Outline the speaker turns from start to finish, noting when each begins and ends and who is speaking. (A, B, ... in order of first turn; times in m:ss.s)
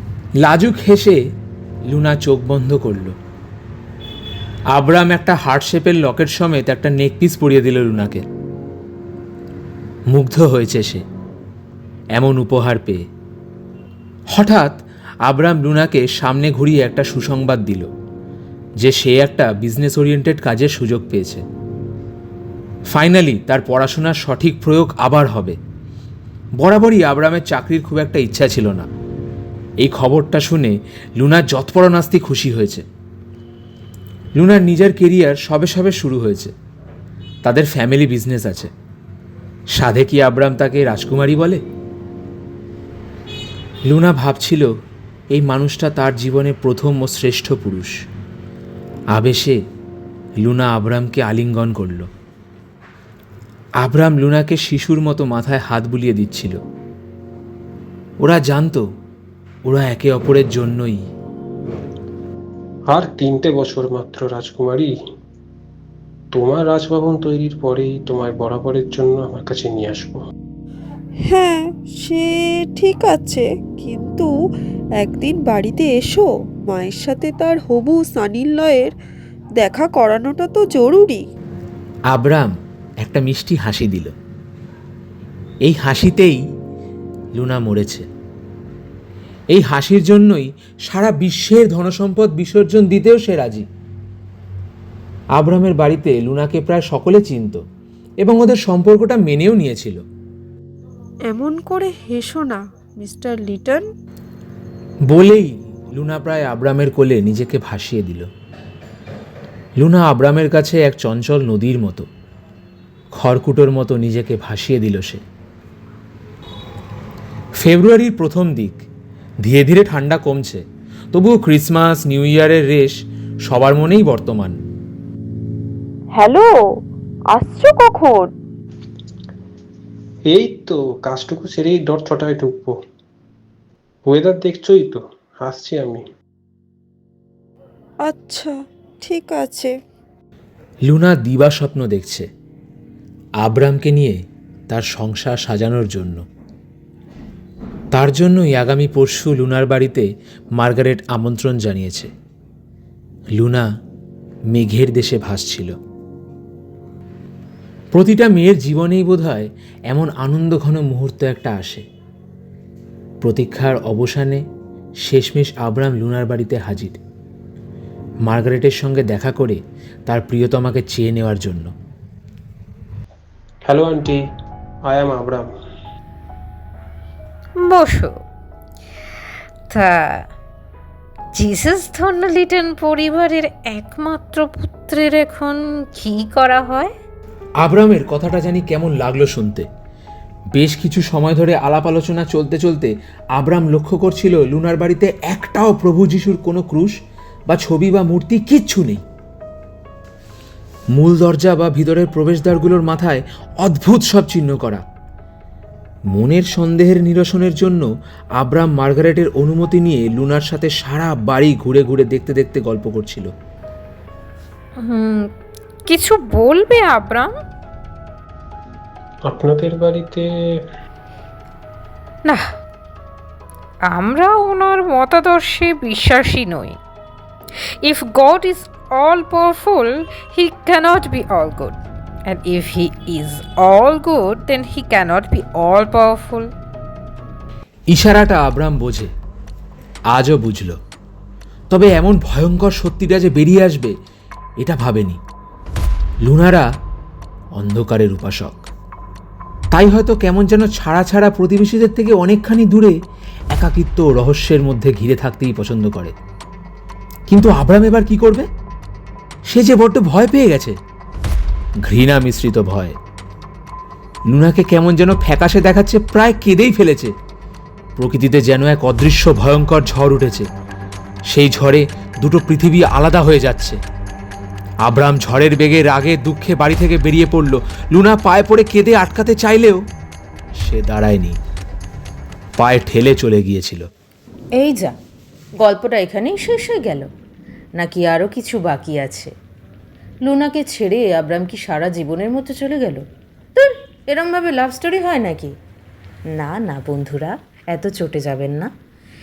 0:00.4-0:01.2 A
0:01.9-0:03.1 A
0:04.7-0:08.2 A
0:10.1-0:11.0 A
0:12.2-0:13.0 A
0:14.3-0:17.9 A
0:18.8-0:21.4 A
0:22.9-0:25.6 A
0:26.6-0:28.9 A
0:29.8-0:32.8 A
0:34.4-0:36.5 A
0:37.4-0:38.7 A
0:39.7-0:41.6 A
0:43.9-0:44.7 A
0:45.3-0:47.9 A
0:49.1-0:49.6 A
0:50.4-0:52.1 A
0:53.8-0:56.6 A
0:58.2-0:58.8 A
0:59.6-1:01.0 A
1:02.9-1:04.9 B
1:06.3-1:10.2 B
1:11.3-1:14.3 C
1:15.0-1:18.9 C
1:19.6-1:21.2 C
1:22.1-1:24.1 A
1:25.6-1:26.4 A
1:27.4-1:28.1 A
1:29.5-1:33.7 A
1:35.4-1:37.6 A
1:38.2-1:40.0 A
1:41.3-1:43.9 C
1:45.1-1:48.3 A
1:49.8-1:52.1 A
1:53.1-1:55.2 A
1:57.6-1:58.8 A
1:59.4-2:04.6 A
2:06.1-2:06.5 C
2:07.3-2:08.3 C
2:10.3-2:12.8 B
2:14.0-2:16.0 B
2:18.1-2:19.7 C
2:20.8-2:22.2 A
2:23.4-2:26.2 A
2:27.9-2:32.1 A
2:33.4-2:33.6 A
2:34.5-2:35.7 A
2:37.9-2:41.8 A
2:43.2-2:44.4 A
2:45.0-2:47.0 A
2:48.2-2:51.7 A
2:53.7-2:54.2 B
2:54.8-2:55.5 B
2:57.6-2:58.1 D
2:59.7-3:00.2 D
3:01.4-3:06.9 D
3:07.6-3:09.7 A
3:10.5-3:17.0 A
3:17.5-3:19.0 A
3:20.9-3:24.8 A
3:26.1-3:27.8 A
3:28.4-3:33.3 A
3:34.8-3:35.2 D
3:35.9-3:37.3 D
3:39.2-3:40.3 B
3:43.9-3:46.8 D
3:47.8-3:51.8 D
3:52.3-3:56.5 D
3:57.9-3:59.1 A
4:00.1-4:00.8 A
4:01.7-4:03.9 A
4:04.6-4:05.2 A
4:06.2-4:06.7 A
4:07.6-4:08.7 A
4:09.7-4:13.0 A
4:13.5-4:16.1 A
4:17.3-4:18.5 A
4:19.5-4:20.8 A
4:21.9-4:23.0 A
4:24.3-4:27.1 A
4:28.0-4:30.5 A
4:31.3-4:33.8 A
4:34.8-4:39.8 A
4:40.6-4:41.4 A
4:42.6-4:43.8 A
4:44.6-4:44.9 E
4:45.6-4:47.1 E
4:47.8-4:49.3 E
4:50.3-4:53.0 E
4:53.6-4:55.5 E
4:56.4-4:58.7 E